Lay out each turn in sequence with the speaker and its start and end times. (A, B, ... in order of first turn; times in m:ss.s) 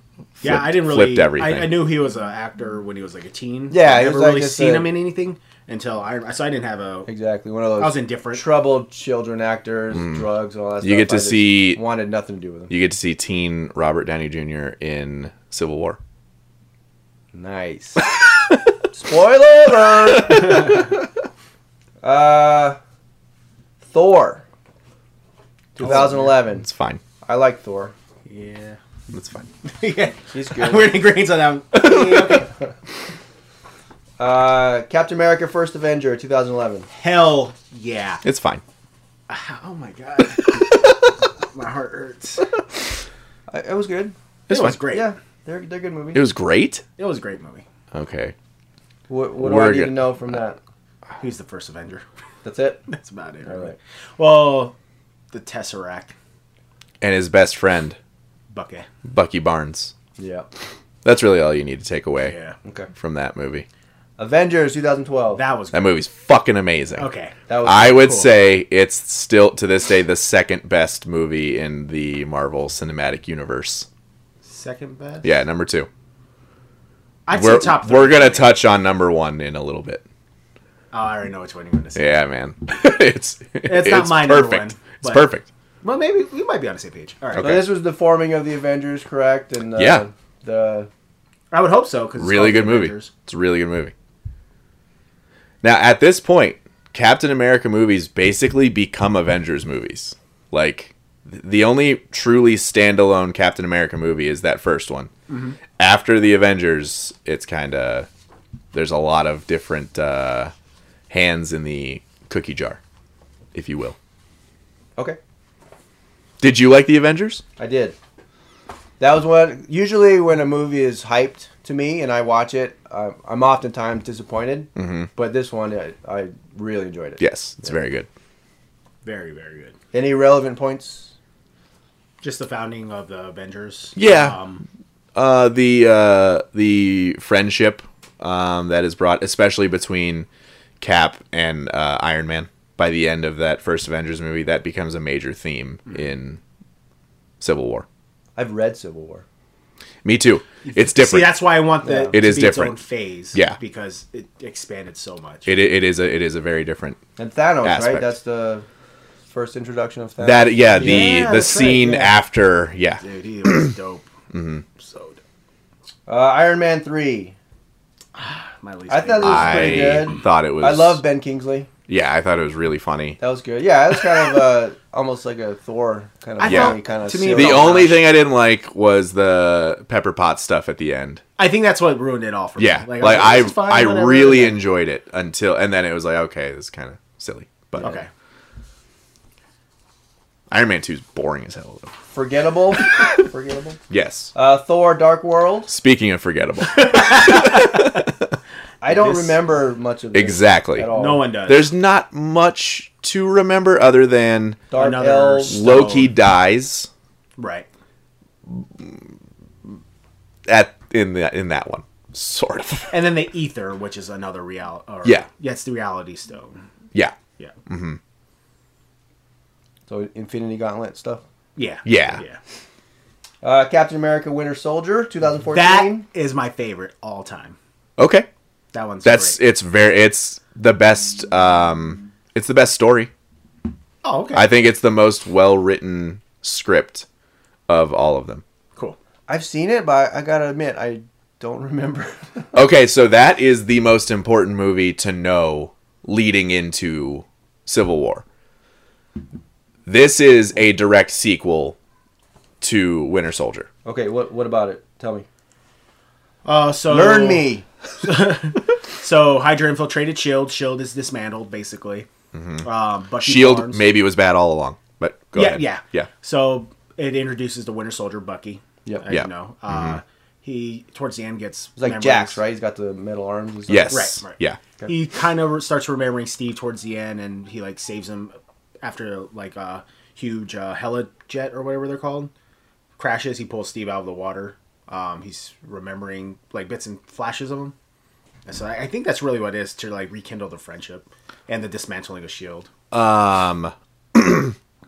0:00.4-0:01.8 A
0:00.4-0:07.1 B
0:03.7-0:04.9 C
0:07.0-0:12.7 C
0:07.8-0:08.5 B
0:09.9-0:10.2 A
0:10.8-0:11.8 A
0:12.7-0:16.0 A
0:17.3-0:18.1 C
0:18.9-0:20.9 C
0:19.9-0:20.6 A
0:22.0-0:22.8 C
0:23.9-0:24.4 C
0:25.8-0:26.6 C
0:25.8-0:27.0 A
0:27.2-0:27.9 C
0:28.2-0:28.8 B
0:29.1-0:29.5 A
0:29.6-0:32.5 B
0:30.3-0:30.9 C
0:31.9-0:32.4 A
0:34.2-0:36.9 C
0:36.9-0:38.2 B
0:38.2-0:38.6 A
0:39.3-0:42.5 B
0:43.5-0:44.1 C
0:44.5-0:44.8 A
0:44.5-0:45.1 B
0:44.8-0:46.3 C
0:46.1-0:46.8 A
0:47.0-0:47.6 B
0:47.9-0:48.3 A
0:49.1-0:50.6 C
0:49.4-0:50.3 A
0:51.2-0:52.0 B
0:52.4-0:52.8 C
0:52.9-0:54.8 B
0:53.4-0:53.8 C
0:55.3-0:56.1 B
0:57.0-0:58.0 A
0:58.5-0:58.9 B
0:59.0-0:59.9 A
1:00.2-1:00.5 C
1:01.0-1:02.4 A
1:02.2-1:02.6 B
1:02.6-1:02.9 C
1:03.0-1:03.6 A
1:04.2-1:05.4 C
1:05.3-1:06.0 B
1:05.7-1:07.1 A
1:07.0-1:07.4 B
1:07.5-1:08.2 C
1:07.6-1:13.9 A
1:14.4-1:15.3 B
1:15.2-1:15.9 A
1:17.2-1:18.6 B
1:17.3-1:20.0 A
1:20.9-1:22.0 B
1:22.0-1:25.5 A
1:23.6-1:25.3 B
1:25.8-1:27.6 B
1:27.4-1:27.6 A
1:27.4-1:30.9 C
1:29.8-1:30.0 A
1:31.5-1:33.1 B
1:32.2-1:33.9 A
1:35.6-1:45.1 A
1:45.3-1:45.6 B
1:45.8-1:48.1 A
1:48.7-1:50.5 A
1:51.1-1:52.8 A
1:53.5-1:54.0 A
1:56.4-1:57.4 A
1:57.6-1:58.0 C
1:59.0-2:07.2 C
2:04.8-2:05.1 A
2:07.2-2:08.1 A
2:09.0-2:09.7 B
2:09.9-2:11.1 C
2:12.2-2:14.6 B
2:14.0-2:14.4 A
2:15.1-2:20.3 A
2:20.8-2:26.4 A
2:27.4-2:27.8 A
2:28.4-2:29.2 C
2:30.0-2:31.4 A
2:30.6-2:35.6 B
2:31.8-2:32.2 C
2:32.1-2:32.8 A
2:35.4-2:37.0 A
2:37.2-2:38.6 C
2:37.6-2:38.1 A
2:39.3-2:42.1 C
2:40.2-2:43.7 A
2:40.7-2:42.1 B
2:43.0-2:44.1 B
2:44.3-2:44.6 A
2:44.8-2:45.2 B
2:46.1-2:47.3 C
2:48.1-2:50.1 B
2:48.9-2:51.7 C
2:49.2-2:51.0 A
2:51.9-2:53.2 A
2:53.2-2:58.0 C
2:56.4-2:58.0 B
2:56.4-3:01.2 A
3:01.4-3:04.6 B
3:02.6-3:08.0 A
3:07.8-3:08.1 B
3:10.5-3:11.9 A
3:12.1-3:13.8 C
3:13.9-3:14.3 A
3:14.3-3:15.7 C
3:15.7-3:18.3 A
3:16.7-3:17.9 B
3:18.8-3:21.2 C
3:18.8-3:19.4 B
3:20.1-3:20.9 A
3:20.9-3:21.7 B
3:21.4-3:24.6 A
3:24.7-3:25.6 C
3:24.7-3:26.1 B
3:25.5-3:26.9 A
3:27.4-3:27.7 B
3:28.5-3:29.0 A
3:30.5-3:33.0 A
3:32.9-3:36.6 B
3:36.9-3:38.0 A
3:39.9-3:41.2 C
3:41.6-3:42.4 B
3:41.8-3:42.2 A
3:43.4-3:46.0 C
3:45.5-3:47.6 B
3:48.0-3:48.3 A
3:48.7-3:49.4 B
3:49.0-3:53.1 A
3:54.0-3:54.5 B
3:54.3-3:57.0 A
3:57.7-3:58.4 A
3:59.3-4:02.5 C
4:02.5-4:08.2 A
4:09.8-4:11.8 A
4:12.6-4:13.7 A
4:13.8-4:15.2 C
4:16.4-4:22.1 B
4:16.9-4:17.6 C
4:22.3-4:22.7 A
4:22.6-4:23.8 B
4:23.2-4:26.1 A
4:25.3-4:32.4 B
4:29.1-4:30.0 A
4:31.8-4:34.0 C
4:33.7-4:34.6 A
4:33.9-4:42.3 B
4:43.0-4:47.7 B
4:48.4-4:52.7 B
4:52.9-4:54.6 A